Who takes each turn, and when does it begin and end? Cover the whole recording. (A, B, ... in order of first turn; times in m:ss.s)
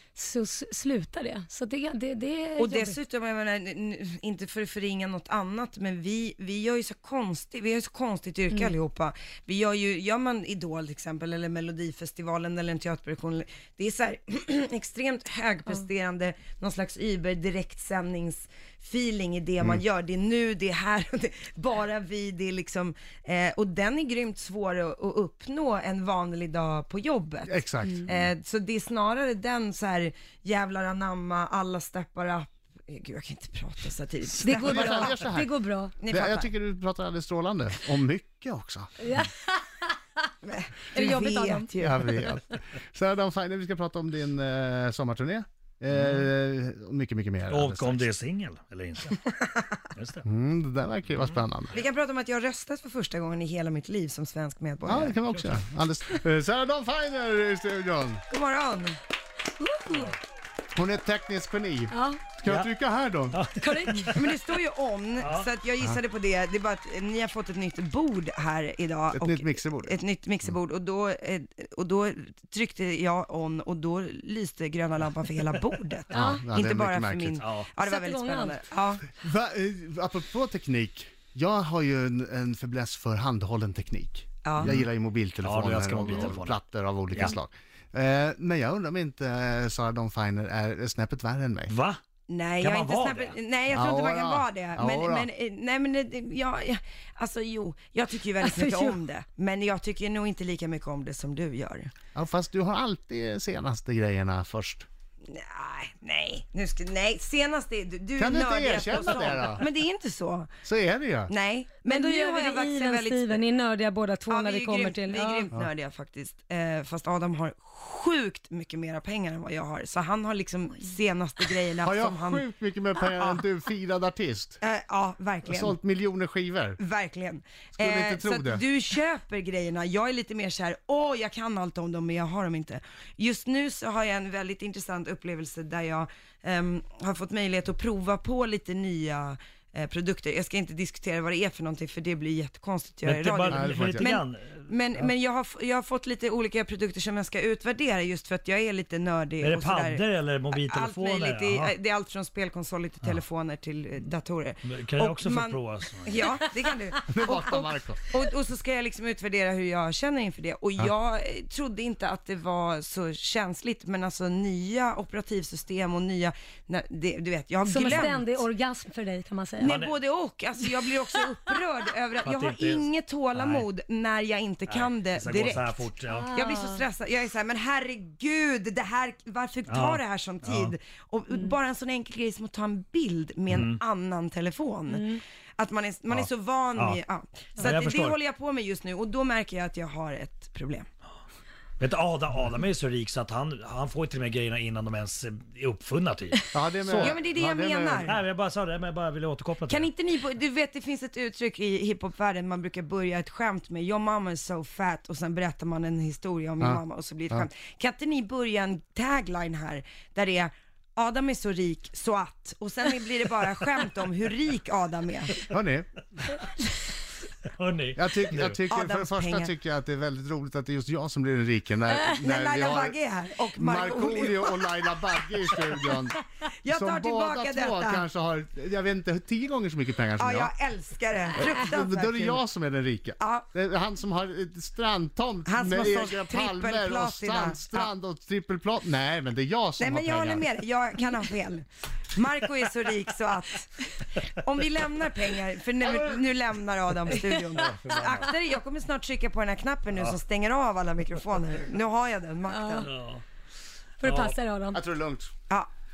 0:00.1-0:03.0 A
0:02.6-0:35.2 B
0:27.5-0:28.3 C
0:34.4-0:35.9 A
0:34.4-0:35.5 C
0:36.0-0:36.5 B
0:36.0-0:38.9 C
0:39.0-0:40.0 A
0:40.4-0:42.1 B
0:40.9-0:42.3 A
0:41.8-0:48.1 C
0:45.9-0:46.3 D
0:47.5-0:49.3 D
0:49.9-0:50.2 D
0:50.2-0:51.8 C
0:51.1-0:51.4 D
0:51.7-0:55.2 B
0:54.8-0:58.2 C
0:55.3-0:55.6 D
0:58.3-0:59.0 B
0:59.6-1:00.1 A
0:59.9-1:00.2 D
1:00.7-1:03.4 C
1:01.9-1:02.2 A
1:02.4-1:02.7 D
1:03.3-1:04.3 D
1:03.6-1:04.2 A
1:04.1-1:19.1 B
1:05.2-1:05.5 D
1:09.1-1:10.5 C
1:16.1-1:16.4 A
1:16.1-1:17.4 C
1:17.4-1:17.7 D
1:17.8-1:18.6 A
1:19.2-1:31.7 C
1:24.4-1:24.7 B
1:24.6-1:24.9 D
1:25.4-1:26.6 D
1:31.7-1:32.0 D
1:32.3-1:41.9 B
1:32.6-1:33.4 D
1:33.7-1:35.3 C
1:38.4-1:38.9 A
1:42.1-1:44.8 C
1:45.2-1:50.5 B
1:48.2-1:49.6 C
1:50.6-1:51.3 C
1:51.3-1:53.4 B
1:51.8-1:55.5 A
1:54.3-2:02.4 B
2:01.8-2:04.6 C
2:03.0-2:03.4 B
2:04.6-2:05.8 B
2:05.4-2:06.8 C
2:06.8-2:48.4 B
2:07.8-2:08.6 C
2:23.0-2:24.7 D
2:23.5-2:24.1 C
2:29.4-2:31.7 D
2:34.6-2:36.4 D
2:37.0-2:38.0 C
2:47.6-2:49.8 A
2:49.6-3:10.9 B
2:49.6-2:49.9 D
2:52.2-2:53.6 D
2:54.7-2:56.3 D
2:56.1-2:56.8 A
2:59.7-3:00.7 D
3:03.5-3:03.8 D
3:04.9-3:05.2 A
3:06.1-3:07.0 D
3:07.6-3:08.2 D
3:11.8-3:17.2 D
3:16.5-3:18.2 C
3:17.0-3:18.2 B
3:18.0-3:19.9 D
3:19.7-3:35.4 B
3:26.6-3:27.5 C
3:35.4-3:36.0 C
3:37.5-3:38.6 D
3:37.9-3:43.0 C
3:38.7-3:39.5 B
3:42.2-3:45.3 B
3:43.5-3:50.5 C
3:46.5-3:48.0 B
3:50.2-3:52.4 B
3:51.4-4:00.4 C
3:53.2-3:53.5 B
3:55.4-3:57.9 B
3:59.8-4:12.9 B
4:07.1-4:08.3 D
4:12.5-4:12.8 A
4:12.8-4:13.2 D
4:14.0-4:14.8 A
4:14.0-4:14.4 D
4:14.7-4:15.3 C